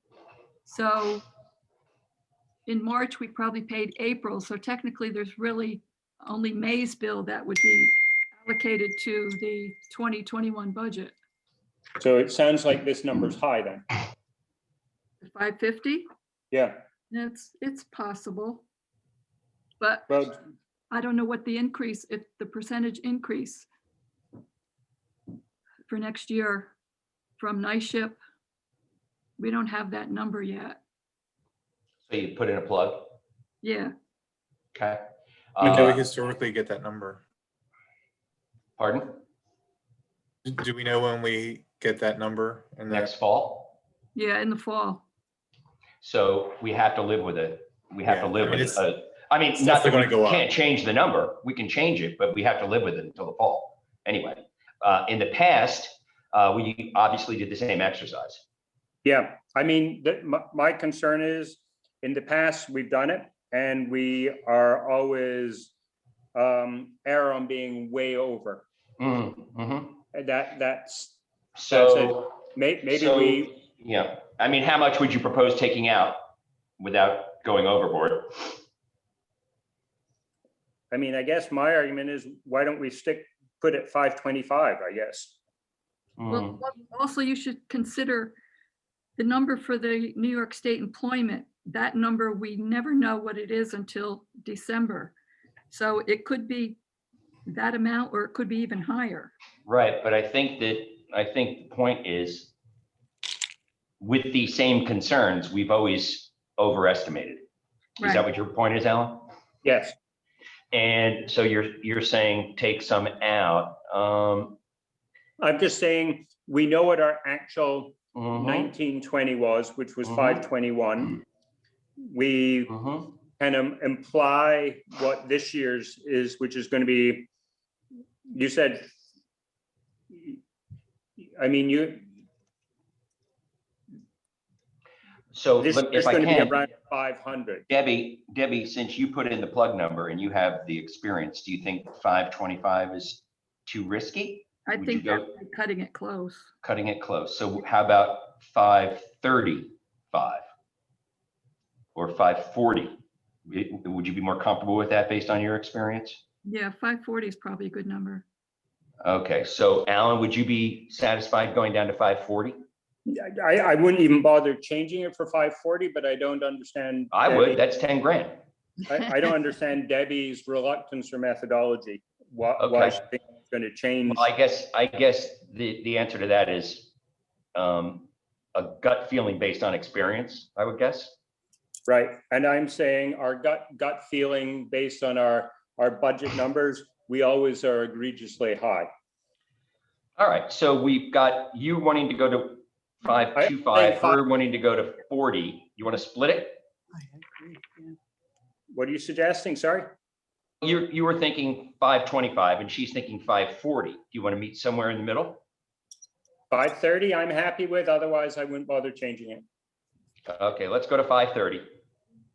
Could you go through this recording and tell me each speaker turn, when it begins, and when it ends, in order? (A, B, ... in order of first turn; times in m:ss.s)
0:00.6-0:01.2 A
0:02.7-0:11.2 A
0:12.0-0:13.8 B
0:15.2-0:16.0 A
0:17.1-0:18.6 A
0:19.8-0:20.2 A
0:20.1-0:20.4 B
0:20.9-0:23.7 A
0:25.9-0:26.7 A
0:27.4-0:28.2 A
0:29.4-0:30.8 A
0:32.1-0:33.1 C
0:33.6-0:33.9 A
0:34.7-0:35.0 C
0:35.5-0:36.0 C
0:35.6-0:37.2 D
0:38.8-0:39.2 C
0:40.4-0:43.1 D
0:42.9-0:43.7 C
0:44.1-0:45.0 A
0:46.0-0:58.4 C
0:48.0-0:48.8 D
0:49.6-0:50.5 D
0:59.0-1:05.7 B
1:06.3-1:08.6 B
1:09.0-1:10.0 C
1:10.1-1:11.2 B
1:11.6-1:18.6 C
1:11.7-1:13.5 B
1:20.9-1:25.4 B
1:26.2-1:26.6 C
1:26.3-1:28.4 A
1:29.2-1:35.1 A
1:35.7-1:36.8 A
1:37.4-1:39.3 A
1:39.6-1:42.5 C
1:44.0-1:47.4 C
1:48.0-1:49.3 C
1:48.0-1:48.2 A
1:49.6-1:49.9 B
1:50.7-1:54.6 C
1:55.4-2:01.2 B
1:58.1-1:58.7 C
2:00.0-2:00.4 C
2:02.0-2:02.7 B
2:02.7-2:03.1 C
2:03.4-2:07.3 B
2:08.3-2:08.9 B
2:10.1-2:10.4 B
2:11.2-2:12.1 B
2:15.3-2:16.5 C
2:15.6-2:17.6 B
2:17.7-2:25.3 C
2:24.6-2:26.5 A
2:26.6-2:30.4 C
2:31.9-2:36.2 C
2:36.4-2:38.2 A
2:39.0-2:42.6 C
2:43.0-2:47.6 B
2:47.1-2:48.4 C
2:48.9-2:54.3 B
2:52.6-2:53.0 C
2:54.1-2:56.9 C
2:57.5-3:01.2 C
3:01.9-3:08.9 B
3:10.2-3:16.6 C
3:13.4-3:14.2 B
3:18.7-3:19.9 B
3:20.6-3:25.4 C
3:26.5-3:29.4 B
3:30.2-3:31.7 C